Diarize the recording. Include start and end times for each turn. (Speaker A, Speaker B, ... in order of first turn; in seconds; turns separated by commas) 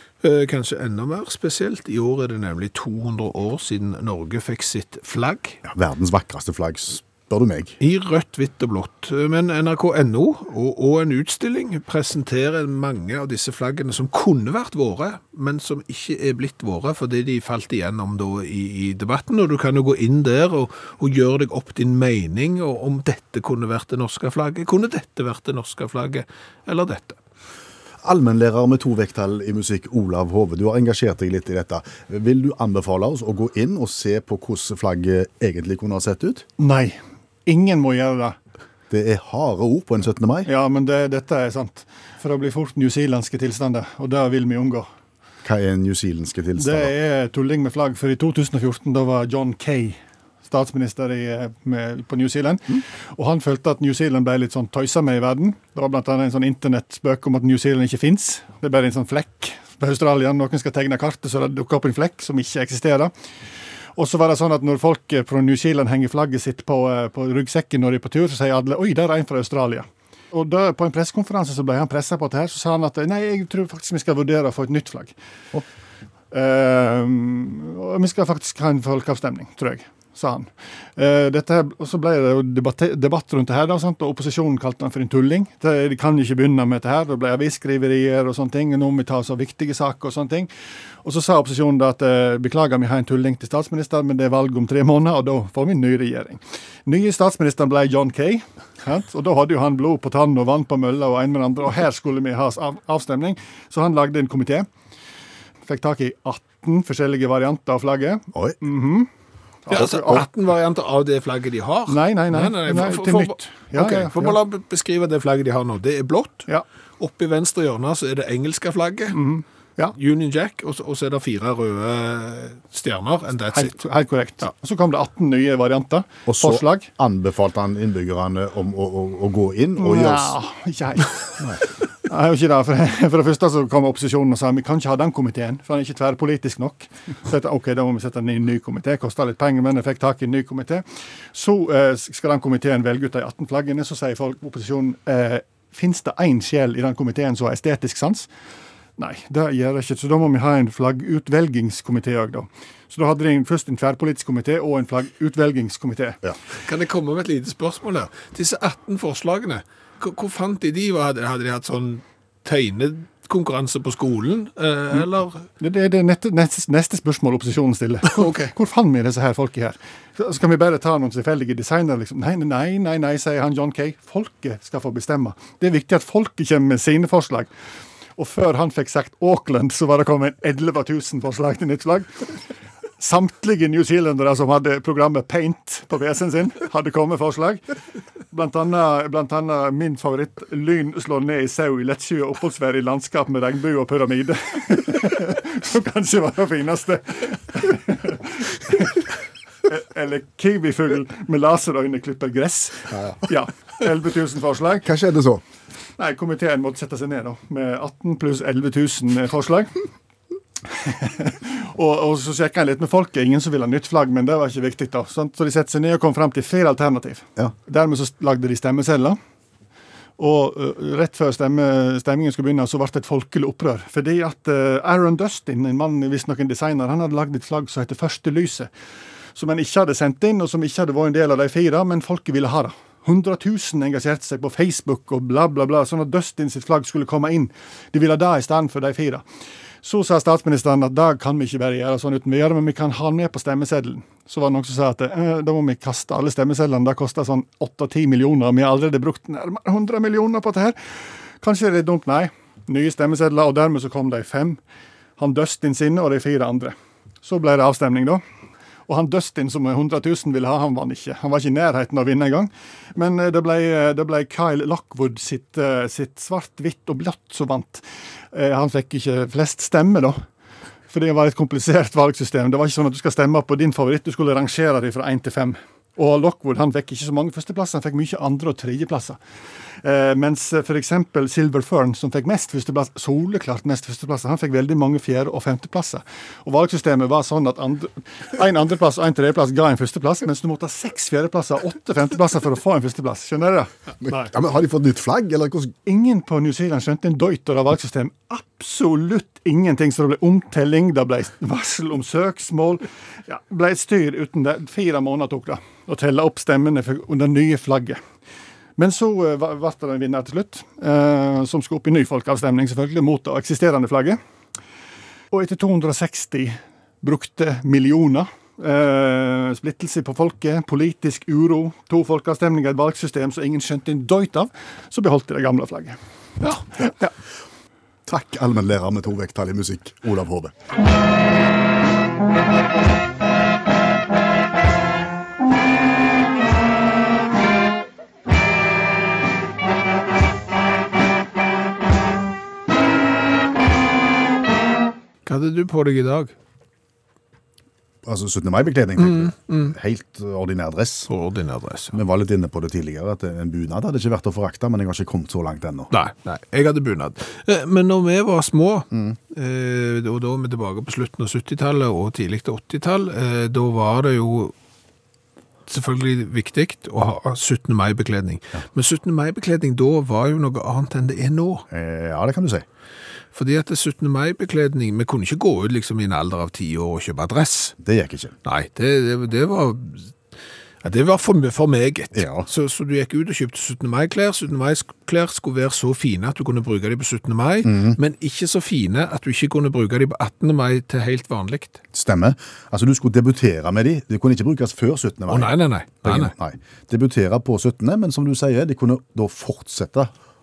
Speaker A: 0.2-5.6, Speaker B: 5.7-7.8, Speaker A: 7.8-27.2, Speaker B: 28.0-36.5, Speaker C: 36.6-38.4, Speaker B: 38.9-40.5, Speaker C: 40.5-44.9, Speaker B: 45.4-46.9, Speaker C: 46.6-63.1, Speaker C: 64.0-75.1, Speaker C: 76.3-90.5, Speaker C: 91.0-104.7, Speaker C: 105.7-109.1, Speaker B: 108.3-108.6, Speaker C: 109.7-110.2, Speaker A: 109.7-116.5, Speaker C: 111.9-114.4, Speaker A: 117.0-119.2, Speaker C: 119.1-120.0, Speaker A: 120.0-123.8, Speaker C: 123.5-126.9, Speaker B: 126.3-130.4, Speaker C: 129.8-131.2, Speaker C: 132.1-148.3, Speaker C: 149.0-156.2, Speaker A: 156.6-165.5, Speaker C: 165.6-177.5, Speaker A: 168.1-168.5, Speaker C: 178.2-182.1, Speaker C: 183.0-187.6, Speaker C: 188.3-199.1, Speaker C: 199.7-204.9, Speaker B: 204.8-205.4, Speaker C: 206.0-209.8, Speaker C: 210.7-219.2, Speaker C: 220.2-228.7, Speaker C: 229.3-239.2, Speaker C: 239.8-250.8, Speaker C: 251.4-254.6, Speaker C: 255.2-258.2, Speaker C: 258.9-270.2, Speaker C: 270.9-279.2, Speaker C: 279.8-293.7, Speaker B: 294.0-295.7, Speaker C: 295.9-308.0, Speaker C: 308.8-314.2, Speaker C: 315.3-326.0, Speaker C: 326.8-327.1, Speaker B: 328.1-330.5, Speaker A: 345.3-346.3, Speaker B: 348.1-351.1, Speaker A: 349.0-349.8, Speaker A: 351.1-352.0, Speaker B: 351.9-355.9, Speaker A: 355.9-364.5, Speaker A: 365.7-371.6, Speaker B: 371.7-372.7, Speaker A: 373.4-377.8, Speaker B: 377.8-378.4, Speaker A: 378.4-380.1, Speaker A: 380.8-391.8, Speaker B: 382.1-382.5, Speaker B: 387.6-388.0, Speaker B: 391.9-395.5, Speaker A: 395.3-396.3, Speaker B: 396.0-400.1